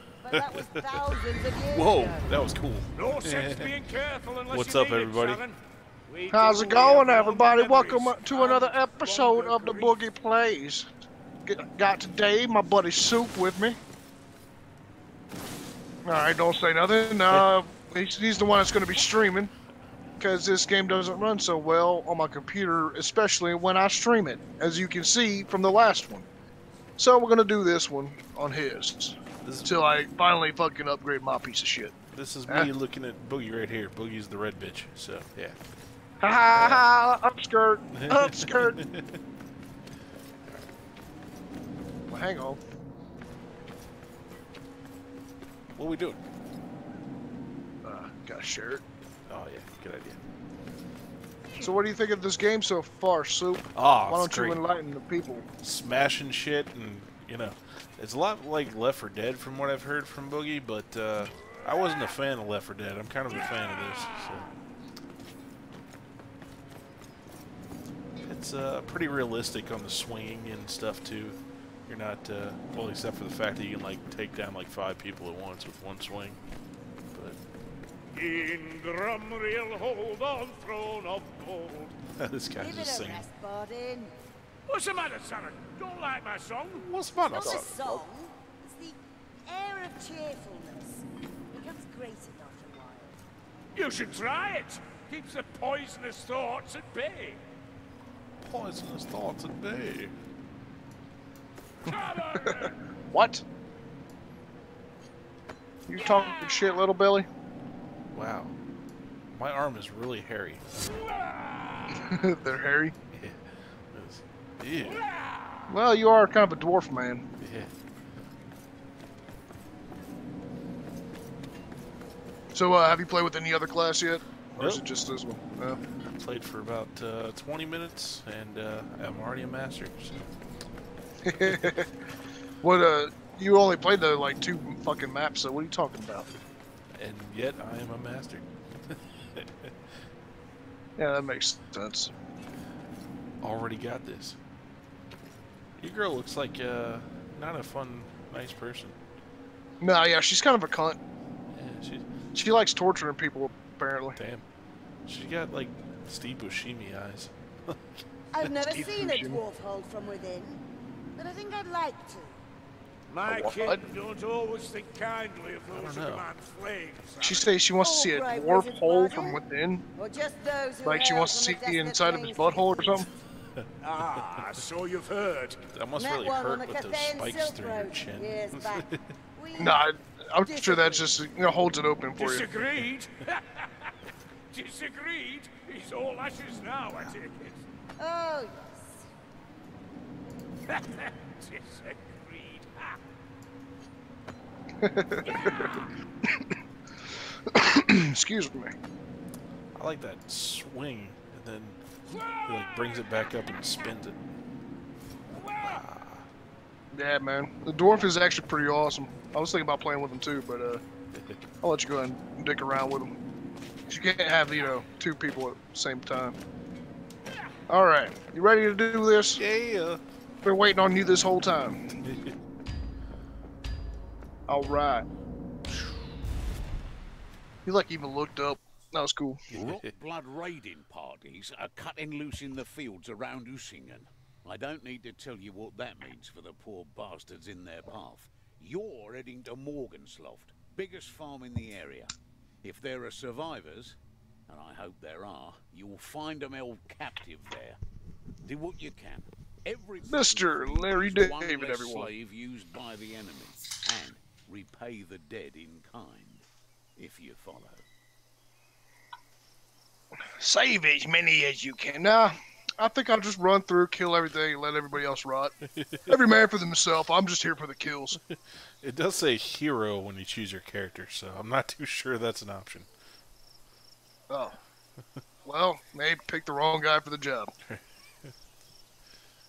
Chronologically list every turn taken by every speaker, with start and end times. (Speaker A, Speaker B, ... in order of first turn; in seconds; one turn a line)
Speaker A: 0.2-2.3
Speaker B: 0.3-1.2
Speaker B: 1.7-3.7
Speaker C: 3.0-10.0
Speaker B: 4.5-5.4
Speaker D: 6.3-10.9
Speaker D: 11.4-13.8
Speaker D: 16.1-19.5
Speaker D: 20.2-26.3
Speaker D: 27.0-31.9
Speaker B: 29.4-29.7
Speaker B: 32.1-35.6
Speaker D: 36.2-38.8
Speaker B: 36.5-36.9
Speaker B: 37.9-39.2
Speaker D: 42.1-42.6
Speaker B: 45.8-46.2
Speaker D: 47.8-48.8
Speaker B: 49.3-50.2
Speaker D: 51.6-55.5
Speaker B: 53.8-54.6
Speaker B: 55.6-64.5
Speaker B: 68.2-76.4
Speaker B: 77.1-77.4
Speaker C: 78.1-82.0
Speaker B: 82.2-83.2
Speaker A: 82.6-84.1
Speaker C: 84.7-86.9
Speaker B: 86.8-87.8
Speaker A: 87.3-93.2
Speaker D: 87.4-88.0
Speaker C: 93.8-97.4
Speaker B: 98.4-100.2
Speaker C: 101.8-102.8
Speaker D: 102.5-103.4
Speaker D: 105.9-107.3
Speaker C: 106.0-106.6
Speaker B: 108.1-108.6
Speaker B: 109.3-110.6
Speaker D: 111.9-113.0
Speaker B: 113.1-115.0
Speaker D: 115.7-117.2
Speaker B: 117.4-117.7
Speaker D: 122.5-125.8
Speaker B: 126.0-130.3
Speaker D: 131.2-131.9
Speaker B: 131.4-131.7
Speaker D: 132.6-136.3
Speaker B: 137.0-139.9
Speaker D: 141.0-142.1
Speaker B: 143.4-144.4
Speaker B: 145.8-149.0
Speaker D: 149.8-151.0
Speaker B: 151.5-152.1
Speaker D: 152.3-154.2
Speaker B: 154.2-154.4
Speaker B: 155.1-158.5
Speaker A: 158.3-160.6
Speaker D: 158.5-159.4
Speaker A: 161.2-162.4
Speaker C: 163.1-167.5
Speaker D: 163.2-163.8
Speaker B: 165.7-166.3
Speaker D: 167.2-169.8
Speaker A: 167.8-169.4
Speaker A: 170.0-173.1
Speaker D: 170.8-173.1
Speaker C: 173.8-175.7
Speaker B: 175.7-179.0
Speaker A: 175.9-179.8
Speaker D: 179.6-182.5
Speaker A: 180.4-181.1
Speaker C: 182.2-183.9
Speaker C: 184.5-187.6
Speaker A: 188.0-189.0
Speaker C: 190.7-193.0
Speaker D: 194.8-195.7
Speaker C: 195.3-195.8
Speaker D: 196.2-196.6
Speaker D: 197.5-198.7
Speaker B: 199.8-201.8
Speaker C: 202.3-203.0
Speaker B: 202.4-204.2
Speaker C: 205.4-205.8
Speaker B: 205.6-206.3
Speaker D: 206.9-210.8
Speaker B: 211.1-211.4
Speaker D: 211.6-213.1
Speaker D: 213.9-216.4
Speaker D: 217.7-219.4
Speaker B: 219.4-220.0
Speaker D: 220.4-221.8
Speaker B: 222.0-222.4
Speaker D: 224.5-225.1
Speaker D: 227.7-229.5
Speaker B: 229.5-229.9
Speaker E: 229.5-244.0
Speaker E: 244.5-247.8
Speaker E: 248.4-256.4
Speaker D: 250.1-252.1
Speaker E: 257.0-257.8
Speaker D: 260.2-265.6
Speaker B: 265.6-266.2
Speaker D: 266.1-268.2
Speaker B: 268.1-272.9
Speaker D: 274.3-274.6
Speaker D: 275.5-277.5
Speaker B: 277.7-278.3